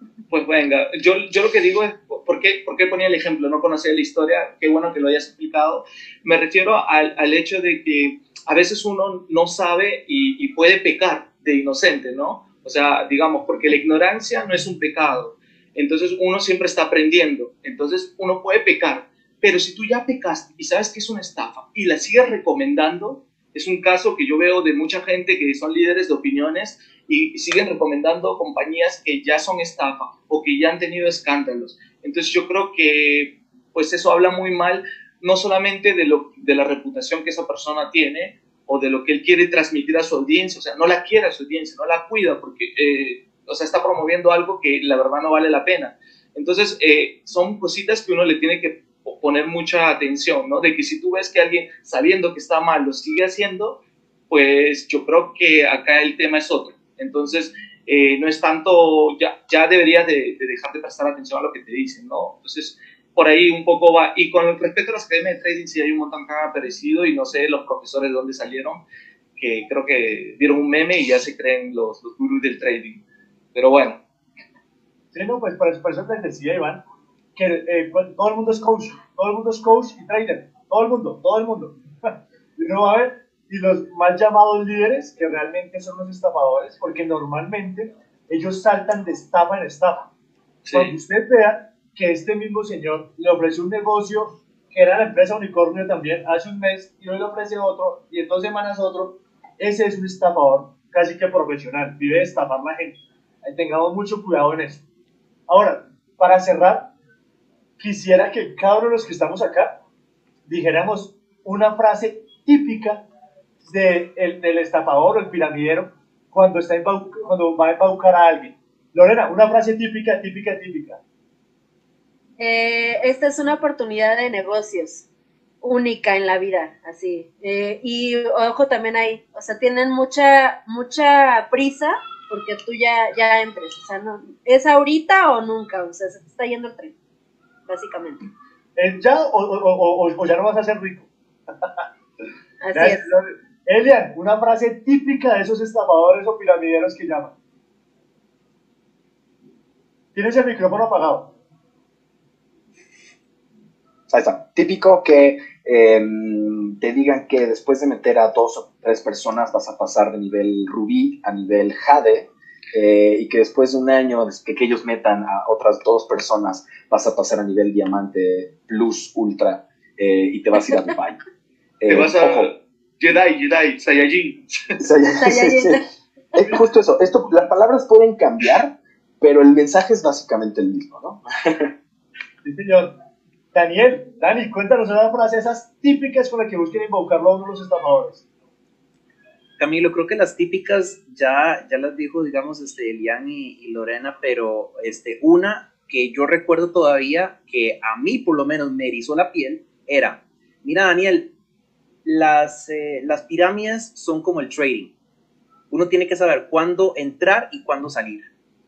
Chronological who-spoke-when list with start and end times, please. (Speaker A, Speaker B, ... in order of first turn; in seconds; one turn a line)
Speaker A: 0.3-53.8
Speaker A: 54.3-68.8
Speaker A: 69.4-73.0
Speaker A: 73.5-74.0
Speaker B: 75.1-76.8
Speaker B: 77.3-90.1
Speaker A: 90.6-90.9
Speaker B: 90.7-104.8
Speaker B: 105.5-106.9
Speaker B: 107.8-109.8
Speaker B: 110.5-113.0
Speaker B: 113.7-121.0
Speaker C: 122.4-125.0
Speaker C: 125.6-136.9
Speaker C: 137.7-138.2
Speaker B: 138.8-141.1
Speaker C: 142.6-143.1
Speaker B: 142.7-147.3
Speaker B: 150.1-151.3
Speaker D: 154.1-171.2
Speaker D: 171.8-172.5
Speaker A: 171.9-174.4
Speaker D: 174.8-175.8
Speaker C: 175.2-175.8
Speaker D: 176.3-181.7
Speaker B: 182.4-183.0
Speaker B: 183.5-188.2
Speaker E: 189.6-201.3
Speaker E: 202.0-204.9
Speaker E: 205.7-208.3